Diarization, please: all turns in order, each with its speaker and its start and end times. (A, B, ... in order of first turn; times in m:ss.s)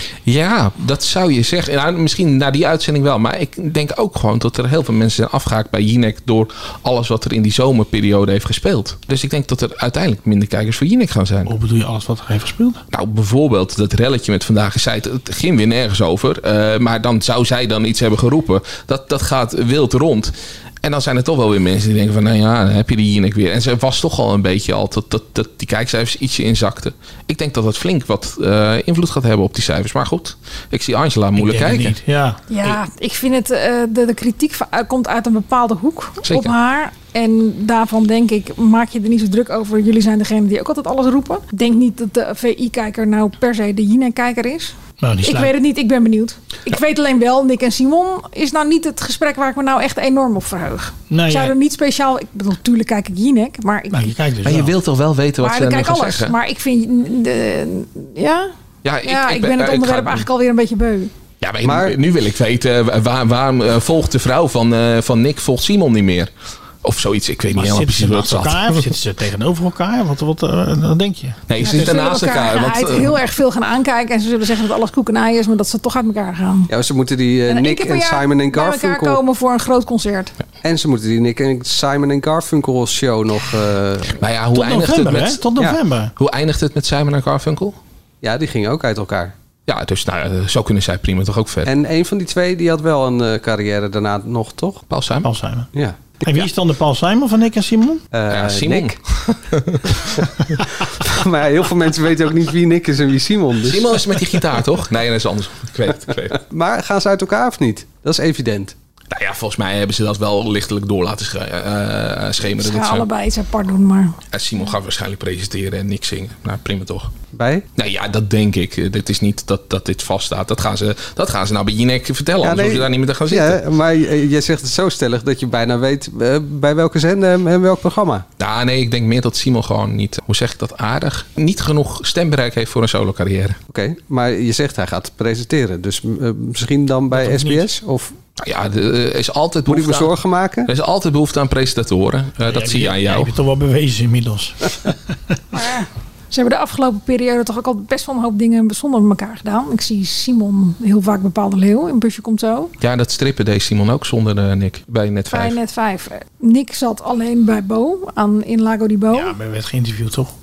0:00.3-0:11.5 A
0:11.5-0:12.8 B
0:12.9-0:32.0 A
0:31.4-0:32.8 B
0:32.5-0:54.1 C
0:36.2-0:36.5 A
0:45.0-0:45.5 B
0:51.1-0:51.5 B
0:53.9-0:54.8 B
0:54.4-0:56.3 A
0:55.4-0:58.5 C
0:58.8-1:00.3 A
0:59.0-1:01.1 C
1:01.4-1:06.3 A
1:01.6-1:02.0 D
1:06.8-1:08.9 A
1:07.5-1:12.0 B
1:11.5-1:13.2 A
1:11.6-1:16.7 C
1:16.7-1:19.2 D
1:17.5-1:20.3 C
1:20.6-1:24.2 D
1:24.2-1:25.4 A
1:24.5-1:26.1 B
1:26.2-1:27.8 A
1:28.2-1:29.3 D
1:29.7-1:31.7 A
1:31.7-1:34.8 D
1:34.9-1:35.3 A
1:35.2-1:35.7 B
1:35.8-1:36.1 D
1:36.2-1:38.0 B
1:38.1-1:39.0 D
1:38.3-1:39.8 A
1:40.9-1:44.0 D
1:43.6-1:46.4 A
1:46.5-1:48.7 D
1:49.1-1:53.1 A
1:52.6-1:54.2 C
1:54.3-1:57.1 A
1:57.3-1:57.6 D
1:57.8-2:03.6 A
2:02.4-2:08.2 D
2:08.4-2:13.6 A
2:13.7-2:18.2 D
2:17.1-2:17.7 B
2:18.4-2:23.3 A
2:19.7-2:20.7 D
2:22.5-2:25.4 B
2:25.5-2:32.7 C
2:32.8-2:35.6 A
2:35.3-2:39.3 C
2:39.1-2:40.3 B